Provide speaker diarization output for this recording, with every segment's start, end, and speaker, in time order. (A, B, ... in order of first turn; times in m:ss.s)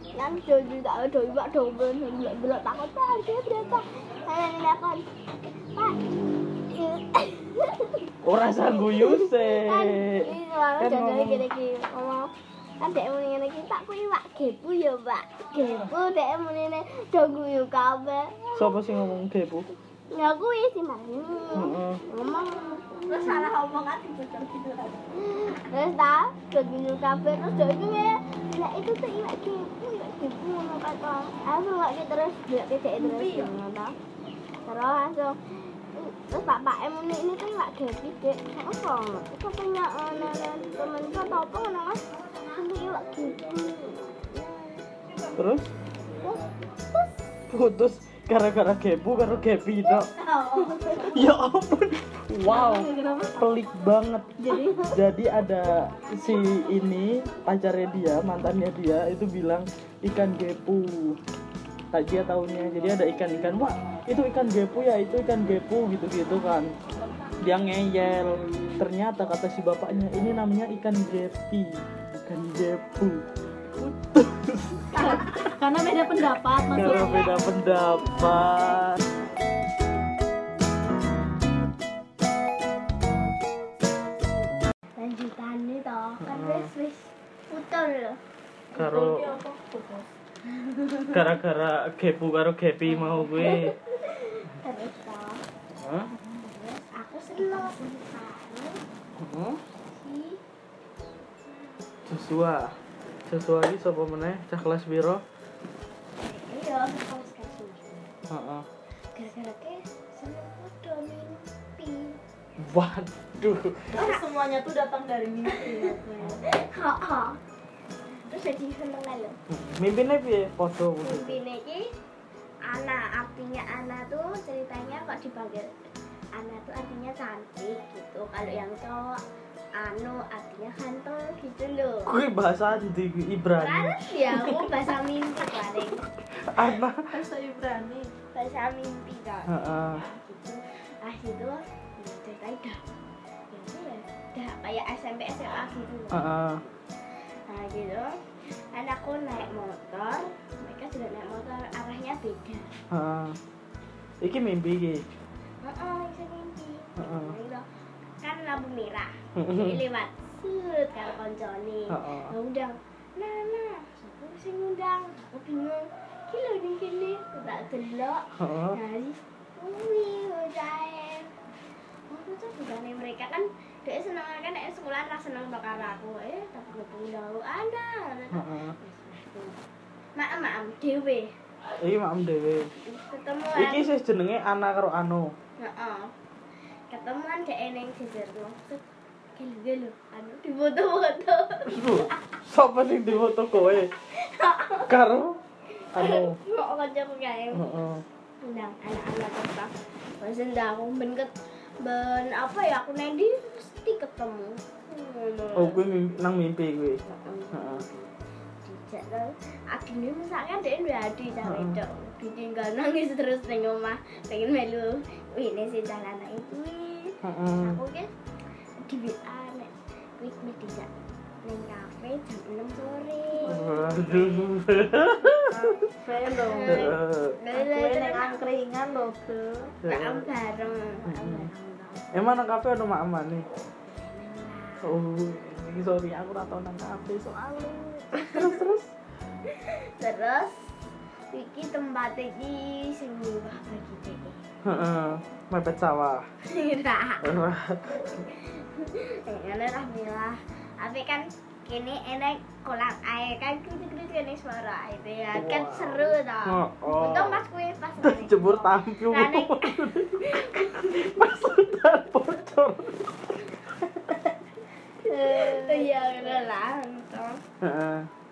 0:00.1-0:05.1 A
0:05.7-0:06.0 A
0:06.7-0:08.1 A
0:08.2-0:11.4 B
0:08.6-0:18.8 A
0:18.6-0:19.7 B
0:20.1-0:23.5 A
0:21.5-0:22.0 B
0:23.1-0:25.0 C
0:25.1-0:34.0 A
0:33.0-0:33.5 C
0:34.6-0:44.8 A
0:45.3-0:45.7 B
0:46.9-0:47.2 A
0:47.5-0:50.1 B
0:50.2-0:51.2 C
0:50.5-0:50.9 A
0:51.0-0:54.3 B
0:52.4-0:53.4 C
0:54.4-0:54.9 C
0:54.8-1:01.2 B
1:01.9-1:06.7 B
1:07.4-1:13.2 B
1:13.8-1:15.2 B
1:14.9-1:17.4 C
1:16.7-1:19.0 B
1:25.0-1:28.2 A
1:26.2-1:26.7 B
1:28.7-1:30.1 C
1:28.7-1:29.4 B
1:30.6-1:31.2 A
1:31.1-1:33.7 B
1:33.0-1:35.4 A
1:35.8-1:36.1 B
1:36.5-1:38.8 A
1:39.2-1:39.6 B
1:39.9-1:40.4 A
1:42.1-1:42.7 B
1:43.3-1:45.2 B
1:46.2-1:48.1 A
1:48.3-1:48.7 B
1:49.1-1:52.2 A
1:52.6-1:54.0 B
1:53.9-1:56.5 C
1:54.0-1:54.2 A
1:55.4-1:57.4 A
1:58.2-1:59.4 A
1:59.5-2:01.4 B
2:01.0-2:01.9 A
2:02.6-2:05.7 A
2:06.3-2:09.2 A
2:09.7-2:12.2 A
2:12.1-2:14.7 B
2:13.6-2:16.0 A
2:16.3-2:17.1 B
2:17.1-2:18.1 C
2:18.3-2:22.8 A
2:19.5-2:20.0 B
2:23.5-2:26.7 A
2:26.1-2:26.6 B
2:27.5-2:32.7 A
2:32.9-2:33.4 B
2:34.2-2:35.0 B
2:35.6-2:37.6 A
2:37.0-2:37.3 B
2:38.2-2:51.3 A
2:39.4-2:39.8 B
2:41.9-2:42.3 B
2:48.4-2:48.8 B
2:52.1-2:59.6 A
2:58.3-2:58.7 B
3:00.2-3:01.3 A
3:01.8-3:02.7 B
3:02.8-3:03.9 A
3:03.6-3:05.3 B
3:05.6-3:06.1 A
3:06.9-3:08.8 A
3:09.4-3:12.2 A
3:11.7-3:13.9 B
3:14.1-3:14.9 A
3:14.9-3:15.4 B
3:15.8-3:17.7 A
3:15.9-3:16.4 B
3:17.5-3:18.0 B
3:18.4-3:25.9 A
3:25.6-3:27.0 B
3:27.0-3:38.1 A
3:27.5-3:27.8 B
3:31.4-3:31.8 B
3:37.2-3:37.8 B
3:38.8-3:40.9 A
3:41.4-3:44.5 A
3:43.5-3:45.8 B
3:45.2-3:46.9 C
3:46.2-3:48.4 A
3:46.6-3:47.4 B
3:47.5-3:49.7 C
3:49.8-3:50.2 B
3:49.9-3:52.3 A
3:51.1-3:51.5 B
3:52.1-3:53.4 B
3:53.8-3:55.0 A
3:54.8-3:58.9 B
3:58.1-3:58.6 A
3:59.4-4:00.8 A
4:01.3-4:04.4 A
4:04.6-4:06.2 B
4:06.5-4:07.3 A
4:07.2-4:08.2 B
4:08.1-4:21.4 A
4:15.3-4:17.4 B
4:18.0-4:23.3 B
4:25.0-4:25.9 C
4:25.0-4:27.4 A
4:27.6-4:28.1 B